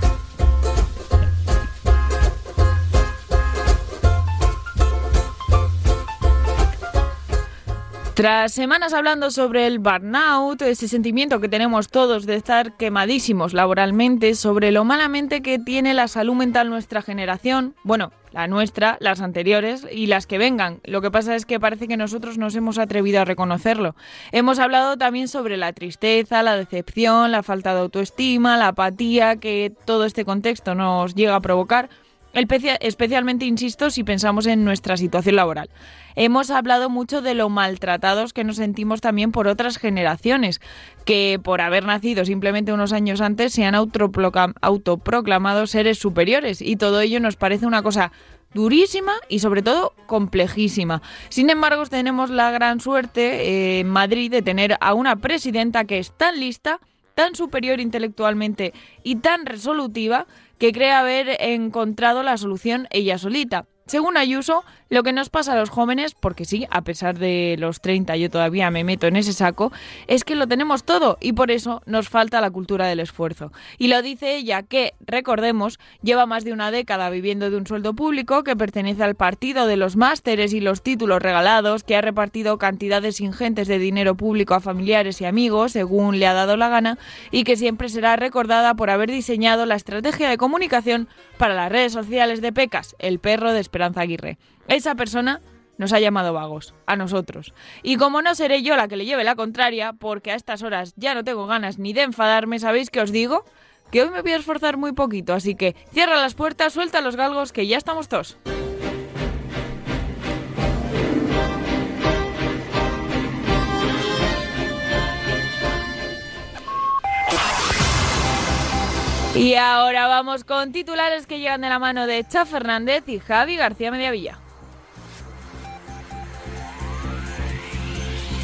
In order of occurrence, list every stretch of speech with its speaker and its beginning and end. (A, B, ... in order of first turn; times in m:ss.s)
0:08.2-1:48.4 A
1:59.3-2:04.4 A